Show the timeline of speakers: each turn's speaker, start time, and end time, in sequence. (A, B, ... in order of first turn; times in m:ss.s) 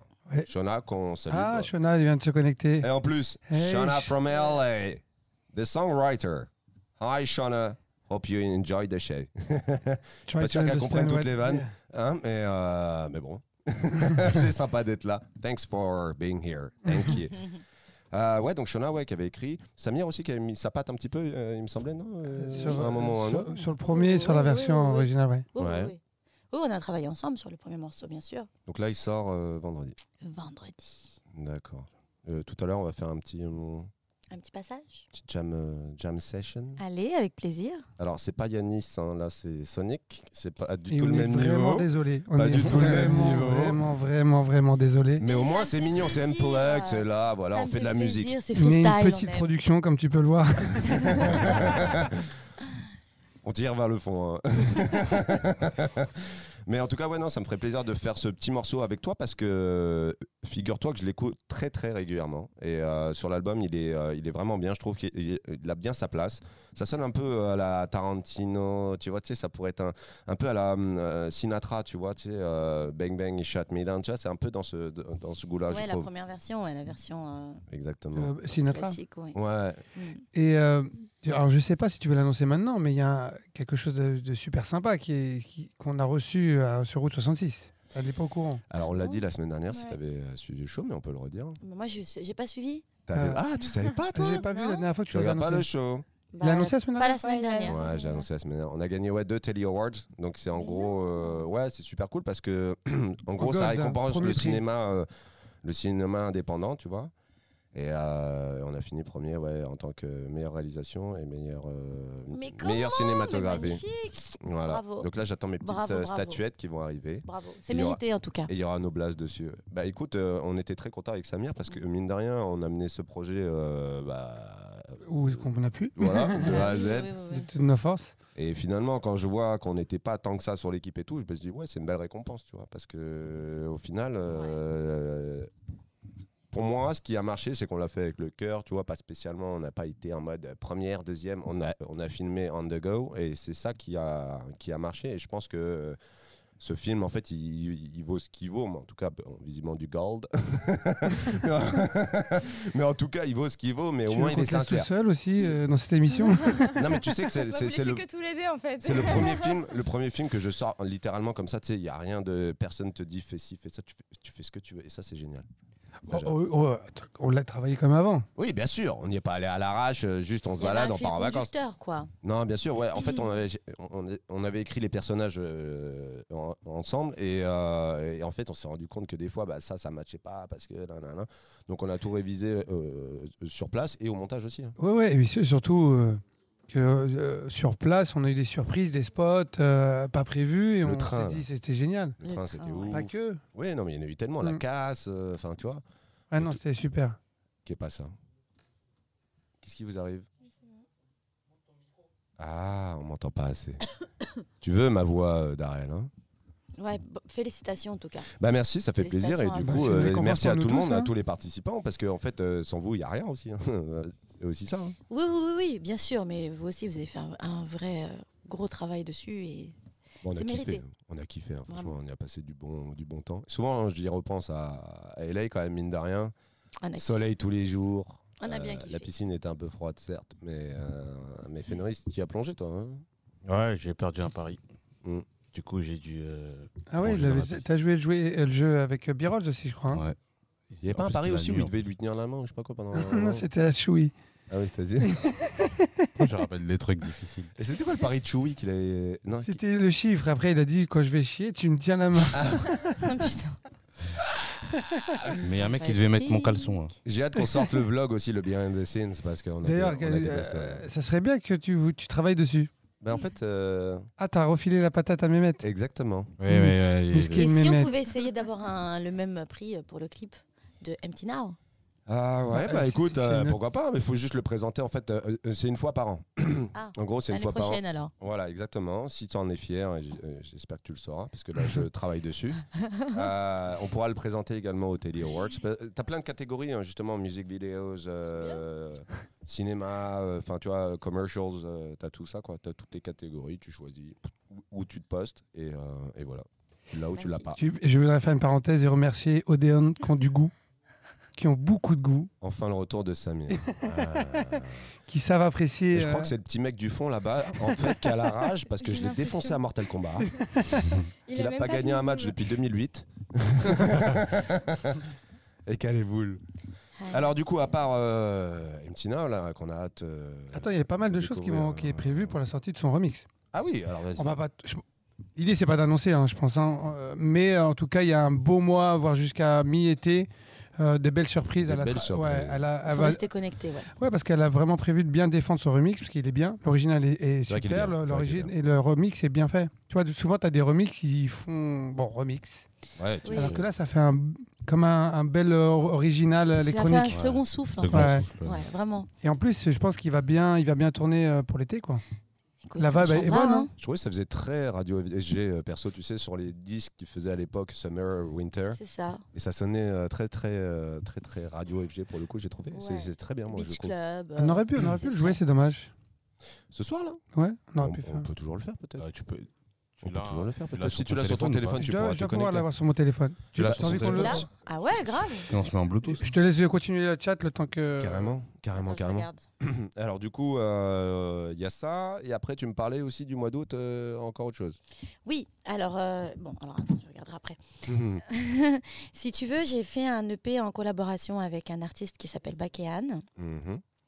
0:00.4-0:01.7 A
0:01.3-0:02.9 B
0:02.8-0:23.5 A
0:03.5-0:04.1 B
0:10.3-0:11.7 B
0:22.3-0:25.5 B
0:22.5-0:22.9 C
0:23.6-0:26.0 C
0:25.6-0:25.9 A
0:26.5-0:28.5 C
0:28.7-0:30.0 A
0:30.2-0:31.2 C
0:31.3-0:33.9 A
0:34.3-0:35.1 C
0:35.1-0:36.8 A
0:36.8-0:37.8 C
0:38.0-0:43.8 A
0:40.9-0:45.2 B
0:42.6-0:43.5 D
0:45.2-0:48.3 A
0:45.2-0:49.5 C
0:48.6-0:51.9 B
0:51.2-0:51.7 C
0:51.2-0:52.2 A
0:53.4-1:16.1 A
1:15.7-1:17.6 C
1:17.7-1:18.3 A
1:18.1-1:19.0 B
1:18.6-1:19.4 C
1:19.3-1:19.8 A
1:19.9-1:20.2 C
1:20.3-1:28.6 B
1:28.7-1:31.6 A
1:28.8-1:29.2 C
1:29.7-1:30.0 E
1:31.6-1:32.8 C
1:33.0-1:34.4 A
1:33.2-1:33.4 B
1:34.1-1:35.7 B
1:34.4-1:34.8 C
1:35.1-1:36.0 A
1:36.3-1:38.2 C
1:36.4-1:37.2 B
1:37.2-1:38.2 E
1:37.6-1:45.1 A
1:40.6-1:41.3 C
1:43.4-1:44.6 B
1:45.6-1:47.1 A
1:47.7-2:07.1 A
1:52.3-1:55.1 C
1:55.6-1:56.4 C
1:57.2-1:58.5 C
2:05.0-2:06.7 B
2:06.4-2:07.5 C
2:07.3-2:08.2 B
2:08.4-2:15.5 A
2:14.3-2:14.6 C
2:16.5-2:26.0 A
2:26.6-2:35.6 A
2:34.1-2:36.9 B
2:36.6-2:39.6 E
2:36.7-2:38.0 A
2:38.8-2:45.5 A
2:46.0-2:48.3 B
2:46.1-2:46.4 A
2:48.4-2:51.5 A
2:50.6-2:52.1 C
2:52.2-3:04.8 A
3:04.8-3:12.2 B
3:10.8-3:11.4 A
3:12.2-3:16.6 A
3:12.2-3:13.0 C
3:12.9-3:13.4 B
3:16.3-3:17.2 B
3:17.6-3:18.1 A
3:19.6-3:20.3 A
3:20.4-3:20.8 E
3:22.4-3:23.8 A
3:24.6-3:26.1 A
3:26.8-3:28.3 C
3:28.3-3:35.0 A
3:29.0-3:30.1 C
3:29.6-3:31.1 B
3:35.1-3:39.8 C
3:40.2-3:46.3 A
3:40.3-3:40.8 C
3:41.7-3:42.0 C
3:46.8-3:47.1 C
3:47.0-3:53.0 A
3:48.4-3:49.1 C
3:53.4-3:54.6 D
3:55.5-3:57.6 D
3:56.9-4:00.0 B
3:59.9-4:00.2 D
4:00.7-4:01.7 D
4:00.8-4:03.5 A
4:02.9-4:04.1 B
4:04.5-4:05.4 A
4:05.0-4:06.2 B
4:06.2-4:07.5 D
4:07.6-4:09.6 A
4:09.4-4:13.2 B
4:12.3-4:12.8 A
4:12.9-4:13.6 C
4:14.3-4:14.6 A
4:14.9-4:15.2 B
4:15.4-4:16.9 C
4:15.4-4:16.9 D
4:17.0-4:20.8 A
4:19.6-4:22.7 B
4:23.0-4:24.1 A
4:24.2-4:25.6 B
4:25.6-4:26.4 A
4:26.4-4:27.4 D
4:26.5-4:27.9 B
4:27.2-4:31.6 C
4:32.1-4:57.6 A
4:32.5-4:33.6 B
4:36.7-4:38.1 C
4:57.1-4:57.6 C
4:57.6-5:00.5 B
5:01.3-5:02.3 B
5:02.4-5:04.9 A
5:03.5-5:04.6 B
5:05.1-5:06.3 B
5:05.9-5:10.8 A
5:07.7-5:08.0 B
5:08.8-5:09.6 E
5:10.4-5:10.9 B
5:11.3-5:12.4 E
5:11.3-5:15.1 A
5:15.6-5:16.4 A
5:17.0-5:17.3 C
5:17.1-5:22.4 A
5:20.5-5:23.3 B
5:23.5-5:24.4 A
5:24.2-5:24.8 B
5:25.4-5:33.2 B
5:31.6-5:32.6 A
5:32.9-5:33.9 C
5:34.0-5:42.6 B
5:37.5-5:38.5 A
5:43.0-5:43.7 A
5:43.2-5:43.6 C
5:43.3-5:47.2 B
5:46.6-5:49.1 C
5:47.1-5:48.6 D
5:47.9-5:48.2 B
5:49.2-5:52.0 B
5:52.6-5:53.7 C
5:52.8-5:53.7 B
5:53.8-5:58.8 A
5:58.7-5:59.2 C
5:59.3-6:03.9 A
6:02.7-6:05.4 C
6:04.4-6:05.9 B
6:06.7-6:07.2 A
6:07.3-6:08.3 B
6:07.8-6:09.0 A
6:09.0-6:11.8 D
6:10.0-6:12.7 A
6:11.8-6:14.4 B
6:13.5-6:14.4 D
6:13.6-6:14.5 A
6:14.1-6:15.5 C
6:15.5-6:16.3 D
6:16.0-6:18.4 B
6:18.0-6:24.8 A
6:18.7-6:19.4 C
6:25.2-6:33.2 C
6:27.8-6:28.2 A
6:33.4-6:33.8 A